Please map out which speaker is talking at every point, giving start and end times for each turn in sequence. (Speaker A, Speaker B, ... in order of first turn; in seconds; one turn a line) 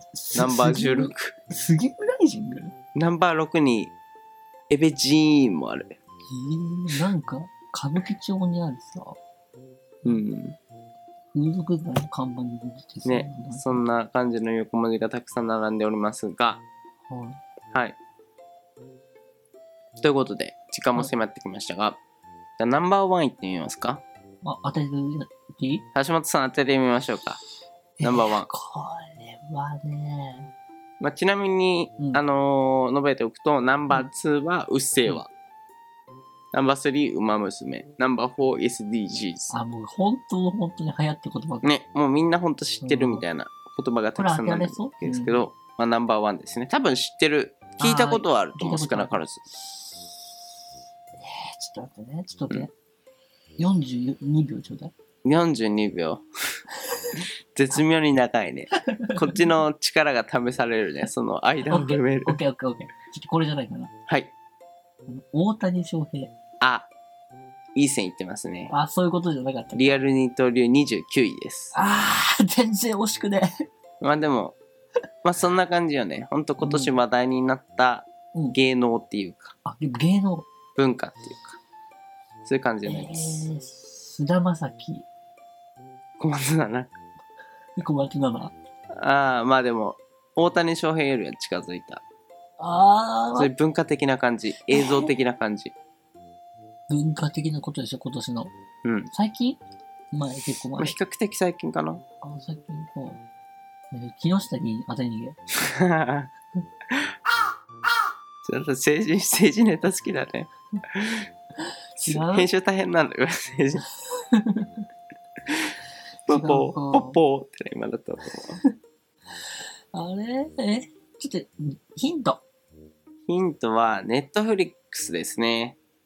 Speaker A: 0.1-2.7
Speaker B: 0.3-1.4
Speaker B: 2.9-3.9
Speaker B: 4.7-6.0
Speaker A: 6.3-9.2
Speaker B: 10.0-10.6
Speaker A: 11.3-13.8
Speaker B: 13.0-16.6
Speaker A: 17.1-17.4
Speaker B: 17.7-18.0
Speaker B: 20.0-22.0
Speaker B: 22.6-24.0
Speaker A: 24.4-25.9
Speaker B: 25.9-27.4
Speaker A: 28.0-30.5
Speaker B: 28.0-28.5
Speaker B: 31.0-35.3
Speaker B: 36.5-39.5
Speaker A: 39.5-41.7
Speaker B: 41.6-49.4
Speaker A: 42.8-43.2
Speaker A: 44.1-45.4
Speaker A: 47.8-50.3
Speaker A: 51.2-52.7
Speaker A: 53.6-54.9
Speaker B: 55.2-56.3
Speaker B: 57.5-62.4
Speaker A: 61.7-63.9
Speaker B: 64.1-64.3
Speaker A: 65.1-66.3
Speaker B: 66.6-66.9
Speaker B: 67.8-68.7
Speaker A: 68.7-70.0
Speaker B: 69.7-71.7
Speaker A: 71.7-73.7
Speaker B: 74.0-74.6
Speaker B: 75.2-79.5
Speaker A: 76.6-77.0
Speaker A: 79.6-80.5
Speaker B: 80.8-81.6
Speaker B: 82.4-83.5
Speaker A: 82.8-85.1
Speaker B: 86.2-87.0
Speaker A: 87.8-88.5
Speaker B: 89.0-92.0
Speaker A: 92.6-93.5
Speaker B: 93.3-95.7
Speaker A: 94.7-95.1
Speaker A: 96.9-98.5
Speaker B: 98.8-99.1
Speaker A: 99.1-99.6
Speaker A: 100.1-100.9
Speaker B: 100.8-102.0
Speaker A: 102.2-103.2
Speaker A: 103.9-105.4
Speaker B: 105.7-106.3
Speaker B: 108.4-111.3
Speaker B: 112.0-113.8
Speaker A: 112.0-112.5
Speaker A: 114.2-114.7
Speaker B: 116.3-118.6
Speaker A: 116.3-117.2
Speaker A: 119.9-122.4
Speaker B: 123.3-125.8